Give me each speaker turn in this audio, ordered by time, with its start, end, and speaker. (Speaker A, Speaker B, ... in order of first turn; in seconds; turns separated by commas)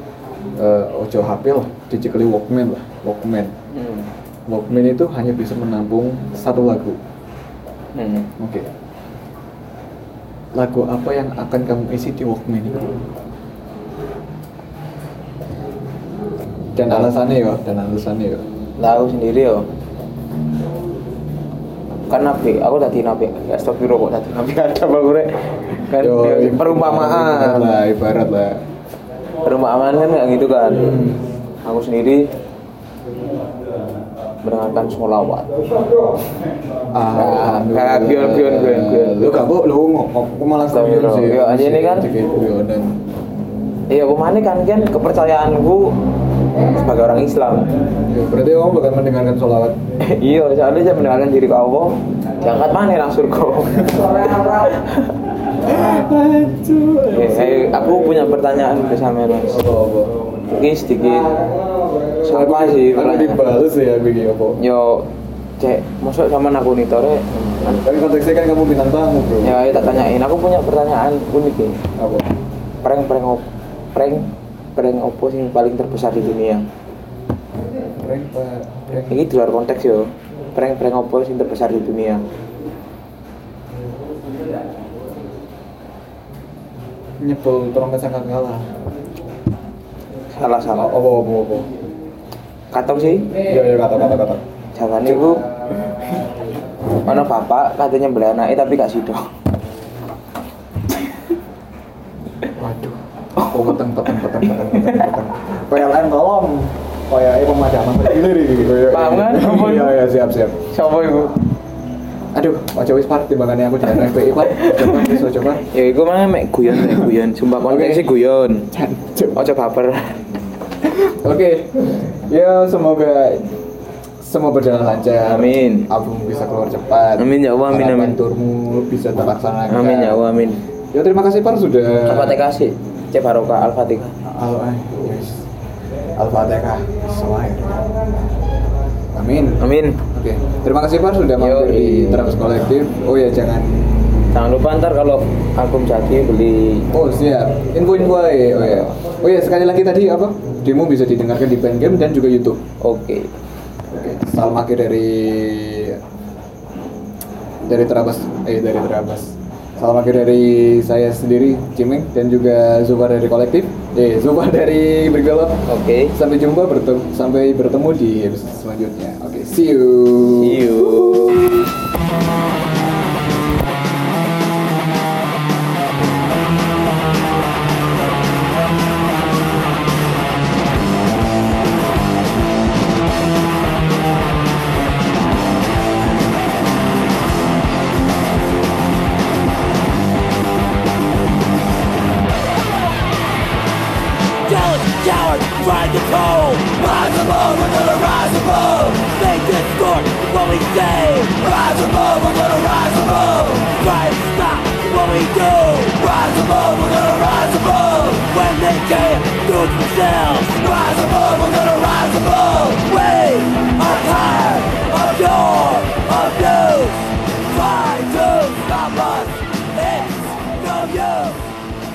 Speaker A: 0.5-3.5, Speaker B: 3.7-4.1, Speaker A: 4.5-7.0, Speaker B: 7.9-8.3, Speaker A: 8.4-8.7, Speaker A: 10.5-12.9, Speaker A: 16.7-18.4, Speaker B: 18.8-19.7, Speaker B: 22.1-27.8, Speaker A: 26.0-28.6, Speaker B: 29.4-31.0, Speaker A: 30.7-31.2, Speaker B: 31.6-32.3, Speaker B: 34.4-35.5, Speaker A: 36.9-43.0, Speaker B: 37.1-39.5, Speaker B: 40.6-42.1, Speaker B: 43.9-46.0, Speaker B: 46.6-47.7, Speaker A: 48.0-49.8, Speaker B: 50.0-55.1, Speaker A: 55.6-58.4, Speaker B: 57.1-59.6, Speaker A: 59.5-60.1, Speaker B: 60.5-61.4, Speaker B: 62.2-63.4, Speaker A: 62.2-64.6, Speaker B: 64.6-67.8, Speaker A: 67.7-70.1, Speaker B: 69.4-71.8, Speaker A: 72.0-72.3, Speaker B: 72.8-76.7, Speaker A: 78.0-79.2, Speaker B: 79.1-82.2, Speaker A: 87.2-88.8, Speaker B: 90.3-90.9, Speaker A: 90.8-91.7, Speaker B: 92.7-93.4, Speaker A: 93.4-94.4, Speaker B: 94.7-95.4, Speaker B: 97.0-99.3, Speaker A: 102.5-110.6, Speaker B: 103.4-103.7, Speaker B: 104.4-105.1, Speaker B: 108.9-110.0, Speaker B: 110.7-111.3, Speaker A: 112.3-115.6, Speaker B: 114.5-118.7, Speaker A: 116.7-118.1, Speaker A: 118.7-119.4, Speaker B: 119.3-120.2, Speaker A: 120.9-123.5, Speaker A: 124.2-130.2, Speaker B: 125.2-125.9, Speaker B: 127.2-128.2, Speaker B: 129.7-130.6, Speaker A: 130.9-132.4, Speaker B: 132.0-134.1, Speaker A: 134.2-135.4, Speaker A: 136.2-137.8, Speaker A: 139.1-144.3, Speaker B: 139.6-140.0, Speaker B: 141.4-142.4, Speaker B: 144.3-146.9, Speaker A: 146.9-152.6, Speaker B: 152.8-153.3, Speaker A: 153.9-156.0, Speaker A: 157.7-171.6, Speaker B: 165.7-166.1, Speaker B: 170.3-171.5, Speaker C: 194.4-221.4